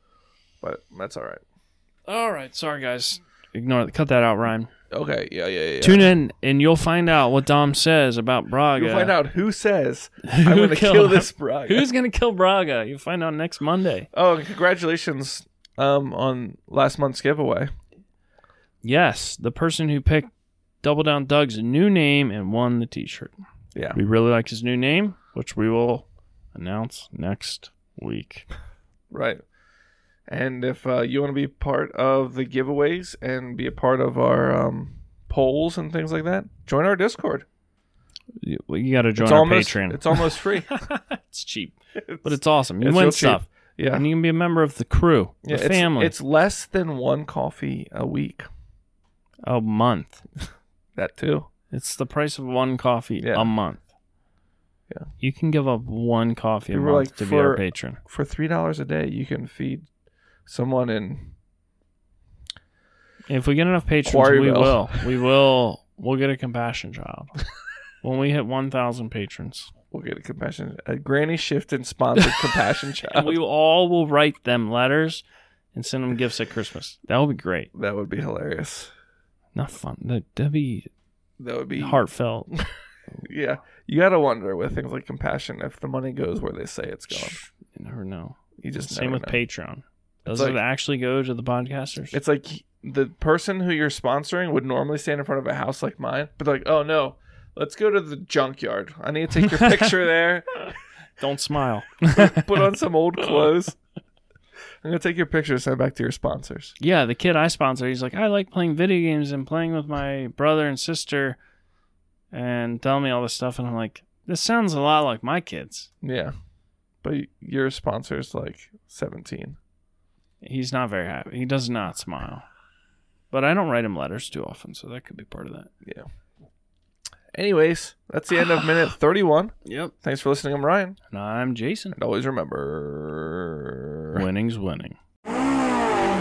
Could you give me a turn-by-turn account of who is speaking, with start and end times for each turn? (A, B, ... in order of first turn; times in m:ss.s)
0:00.6-0:01.4 A
0:02.1-0:04.7 B
0:04.9-0:06.2 A
0:05.8-0:09.2 B
0:08.7-0:11.9 A
0:10.3-0:14.1 B
0:14.1-0:17.7 A
0:18.8-0:20.3 B
0:20.8-0:23.3 B
0:23.9-0:28.5 B
0:29.1-0:29.4 A
0:30.3-0:37.4 A
0:38.4-0:46.1 B
0:39.2-0:40.8 A
0:42.0-0:44.1 A
0:45.4-0:48.5 A
0:49.4-0:50.2 B
0:51.0-0:51.5 A
0:51.7-0:53.8 B
0:53.2-0:53.5 A
0:55.2-0:58.0 B
0:56.7-0:59.8 A
1:00.5-1:01.3 A
1:03.3-1:07.3 B
1:04.0-1:05.0 A
1:08.0-1:09.7 B
1:09.9-1:13.4 A
1:13.0-1:17.7 B
1:17.7-1:18.9 A
1:19.5-1:20.9 B
1:21.4-1:22.6 A
1:21.8-1:22.5 B
1:23.2-1:27.4 A
1:27.1-1:32.2 B
1:28.6-1:29.4 A
1:30.3-1:30.6 A
1:32.1-1:40.7 A
1:39.5-1:39.9 B
1:41.2-1:42.7 B
1:42.1-1:43.8 A
1:44.8-1:46.7 A
1:46.8-1:51.4 B
1:52.3-1:55.9 B
1:56.0-1:56.3 A
1:57.0-1:59.6 A
2:00.4-2:02.4 B
2:03.3-2:05.7 B
2:07.3-2:11.0 A
2:09.6-2:09.9 B
2:11.1-2:12.0 B
2:11.9-2:14.2 A
2:14.1-2:15.0 B